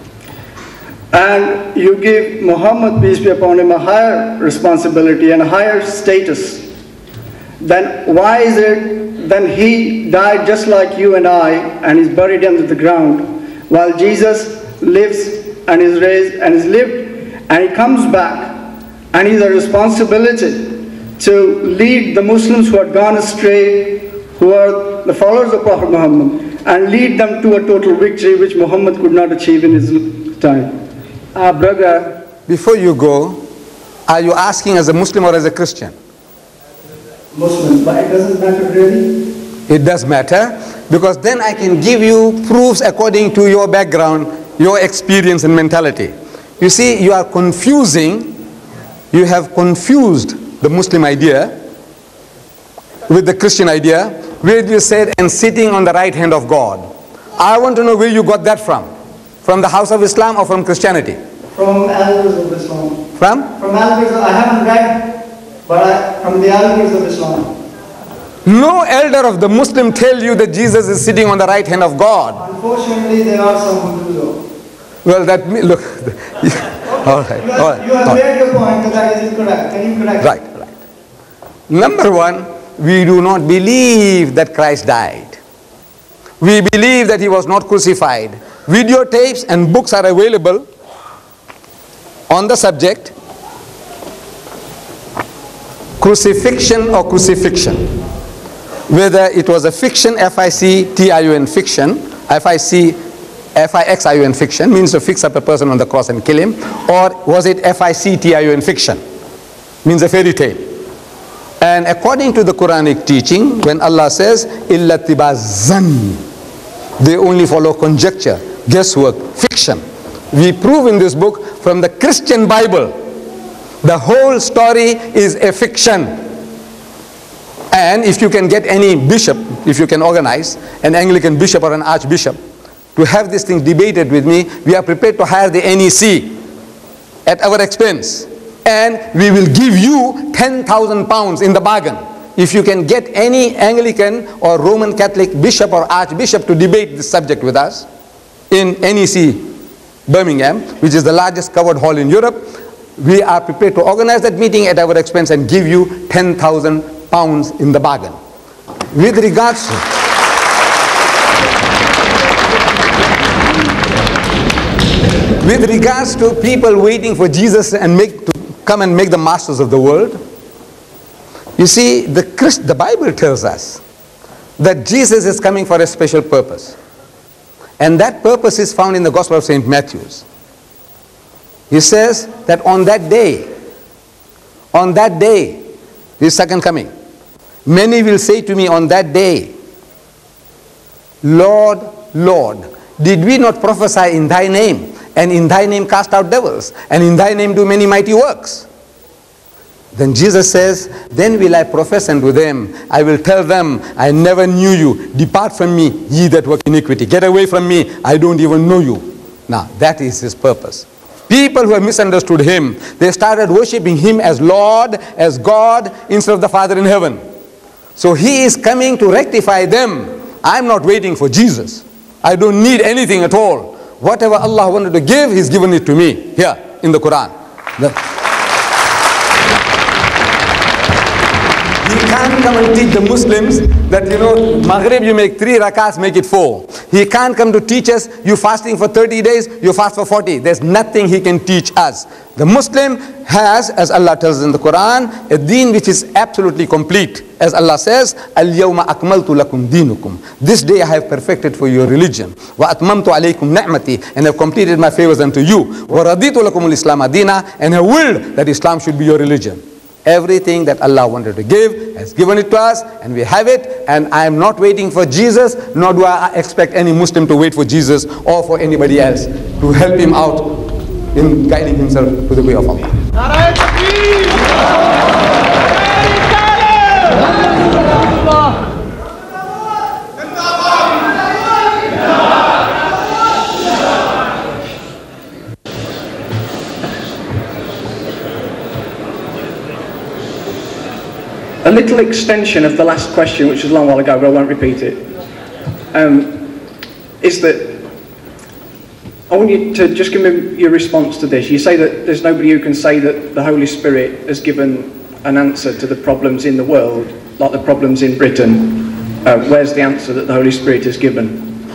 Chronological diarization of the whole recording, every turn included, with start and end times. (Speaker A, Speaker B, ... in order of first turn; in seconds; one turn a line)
Speaker A: 1.1-6.7
Speaker A: 7.6-30.8
Speaker A: 31.3-32.2
Speaker B: 32.5-33.4
Speaker B: 34.1-35.9
Speaker A: 37.3-39.2
Speaker B: 39.7-48.4
Speaker B: 49.1-51.5
Speaker B: 53.1-58.9
Speaker B: 59.4-61.2
Speaker A: 61.5-63.0
Speaker B: 63.2-63.5
Speaker A: 63.6-67.5
Speaker B: 68.5-72.4
Speaker A: 72.4-74.4
Speaker B: 75.0-78.2
Speaker A: 76.9-80.4
Speaker B: 80.2-80.7
Speaker B: 81.7-85.4
Speaker B: 86.4-90.7
Speaker B: 92.3-93.1
Speaker B: 96.0-97.9
Speaker B: 98.9-103.0
Speaker B: 103.5-109.0
Speaker B: 109.8-110.7
Speaker B: 111.6-116.2
Speaker B: 117.0-123.0
Speaker B: 123.8-126.2
Speaker B: 127.7-132.4
Speaker B: 133.0-136.4
Speaker B: 137.3-147.9
Speaker B: 148.5-149.5
Speaker B: 150.1-158.2
Speaker B: 158.9-159.9
Speaker B: 165.4-170.2
Speaker B: 171.6-173.8
Speaker B: 174.6-176.8
Speaker B: 177.8-180.2
Speaker B: 181.7-183.5
Speaker B: 184.7-185.6
Speaker B: 186.2-186.9
Speaker B: 187.7-189.5
Speaker B: 191.2-198.7
Speaker B: 199.9-217.2
Speaker B: 218.0-228.0
Speaker B: 231.8-273.1
Speaker C: 291.6-295.1
Speaker C: 295.9-296.5
Speaker C: 297.2-297.8
Speaker C: 299.3-311.6